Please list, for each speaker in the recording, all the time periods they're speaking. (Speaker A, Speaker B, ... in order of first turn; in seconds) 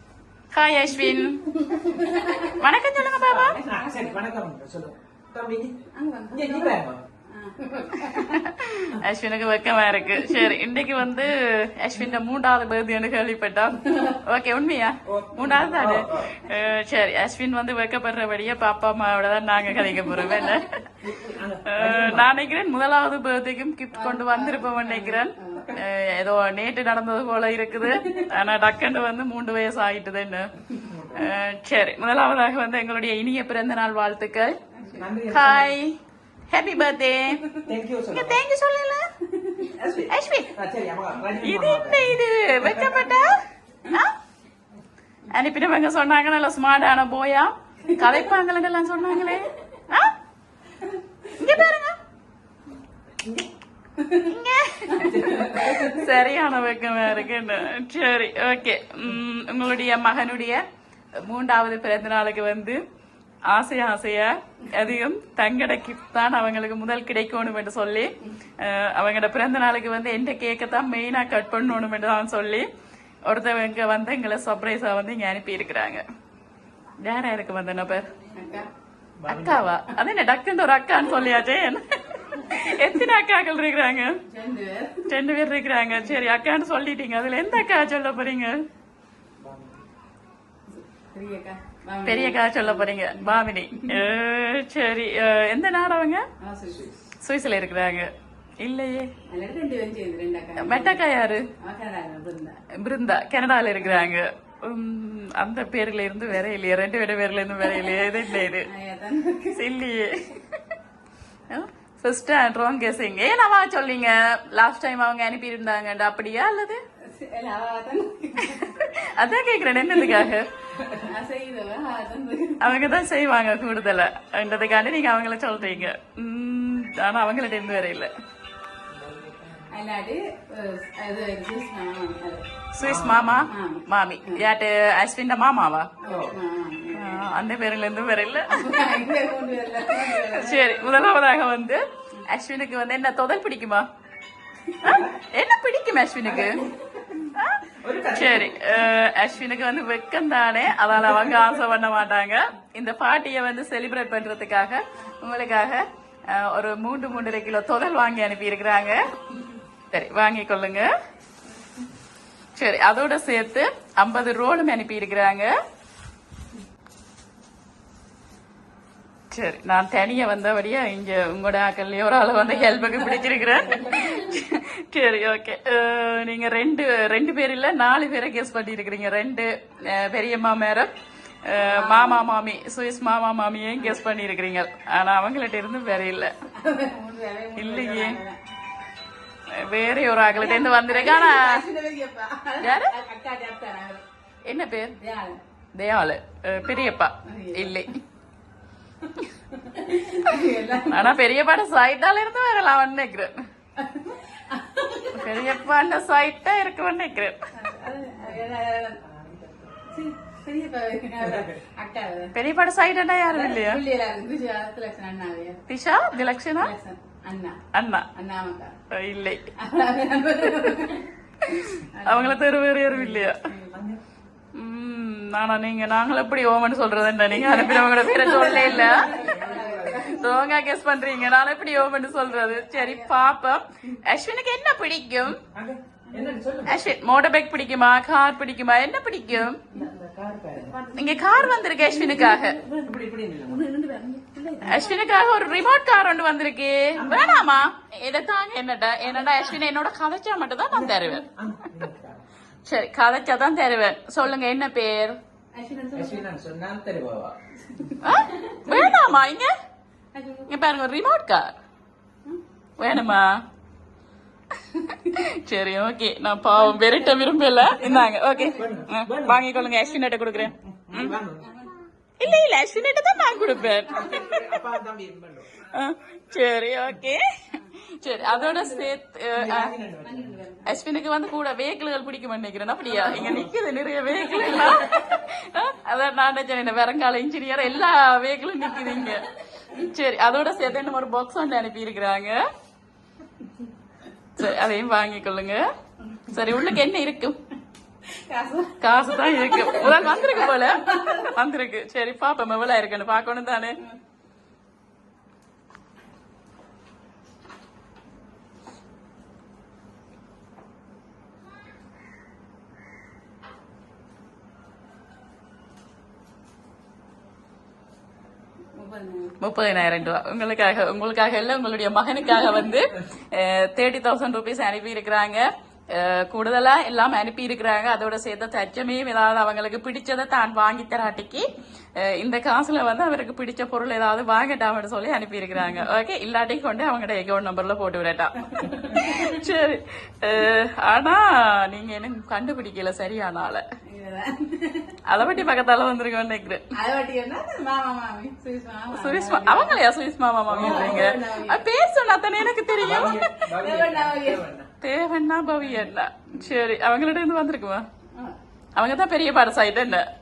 Speaker A: 0.5-1.5, 2.2-3.6, 8.0-20.8, 21.6-30.5, 31.1-34.5, 35.3-35.9, 36.5-37.5, 38.1-39.1, 40.1-40.5, 41.4-44.1, 45.3-50.1, 51.3-52.0, 54.1-60.6, 61.2-62.8, 63.5-72.7, 73.2-76.0, 77.0-78.1, 79.3-84.2, 85.1-88.6, 92.0-96.2, 97.2-98.1, 98.6-99.1, 100.6-101.5, 102.7-108.7, 109.5-110.6, 111.5-116.8, 118.4-120.5, 122.6-128.1, 132.7-135.9, 136.9-138.7, 139.8-143.8, 144.8-146.6, 147.3-159.1, 159.9-160.9, 162.6-165.5, 169.3-180.9, 181.4-186.3, 187.6-188.2, 189.6-191.6, 192.6-192.9, 194.4-194.9, 195.7-197.9, 200.8-203.4, 205.1-207.4, 212.3-213.8, 215.7-216.7, 217.7-218.1, 218.9-219.5, 220.5-220.9, 221.4-223.4, 224.5-229.1, 230.1-235.4, 236.6-239.6, 240.9-242.6, 244.6-251.2, 252.6-255.2, 258.0-259.5, 260.5-261.5, 262.8-263.4, 265.0-271.2, 272.2-274.4, 275.7-279.7, 280.6-292.4, 294.4-295.6, 296.3-297.4, 298.8-303.8, 319.4-343.6, 345.1-346.6, 348.9-353.3, 354.8-357.8, 358.8-360.1
Speaker B: 1.5-2.6, 3.5-4.2, 5.9-8.5, 10.1-10.5, 13.9-14.2, 20.1-20.6, 23.9-25.8, 27.8-28.3, 34.8-35.1, 39.4-39.7, 47.9-48.3, 54.0-54.3, 54.9-55.8, 78.3-78.7, 84.3-85.1, 90.7-94.1, 96.4-96.9, 99.3-101.0, 101.6-102.6, 103.8-104.1, 107.7-109.7, 117.0-118.8, 119.9-120.3, 120.9-122.7, 129.7-132.4, 133.5-134.4, 136.0-137.3, 138.5-141.0, 172.4-174.4, 181.6-182.3, 186.5-188.4, 190.3-194.0, 195.0-195.4, 197.2-197.9, 199.0-201.2, 203.8-205.6, 207.6-209.0, 209.9-212.3, 213.3-215.6, 216.6-217.6, 218.1-218.7, 219.6-223.8, 227.3-230.4, 232.6-233.3, 236.1-236.4, 240.5-242.9, 243.4-245.8, 255.5-256.3, 257.7-259.1, 260.1-260.5, 264.7-265.1, 266.5-268.8, 271.1-271.8, 273.4-274.5, 277.5-278.9, 280.0-280.8, 283.0-283.3, 284.1-285.2, 288.7-289.2, 298.2-301.3, 318.7-319.4, 338.5-339.4, 343.9-344.9, 346.8-349.8, 350.5-351.6, 353.4-354.4
Speaker C: 3.3-5.8, 6.3-7.0, 15.1-16.3, 21.0-22.4, 30.8-31.3, 35.0-35.8, 37.6-38.4, 39.6-43.1, 53.2-53.5, 54.9-56.1, 79.2-79.7, 89.4-89.8, 96.7-96.9, 128.9-129.8, 132.8-133.4, 136.1-136.3, 144.8-145.1, 146.2-146.9, 147.8-148.6, 151.1-151.3, 209.0-209.8, 211.2-211.6, 223.7-224.0, 228.6-230.2, 235.4-236.8, 239.7-240.8, 242.8-243.6, 246.9-247.6, 251.0-252.2, 255.9-257.4, 268.6-269.5, 270.4-271.5, 273.9-275.6, 279.4-280.4, 283.0-283.5, 350.5-351.2, 352.7-354.7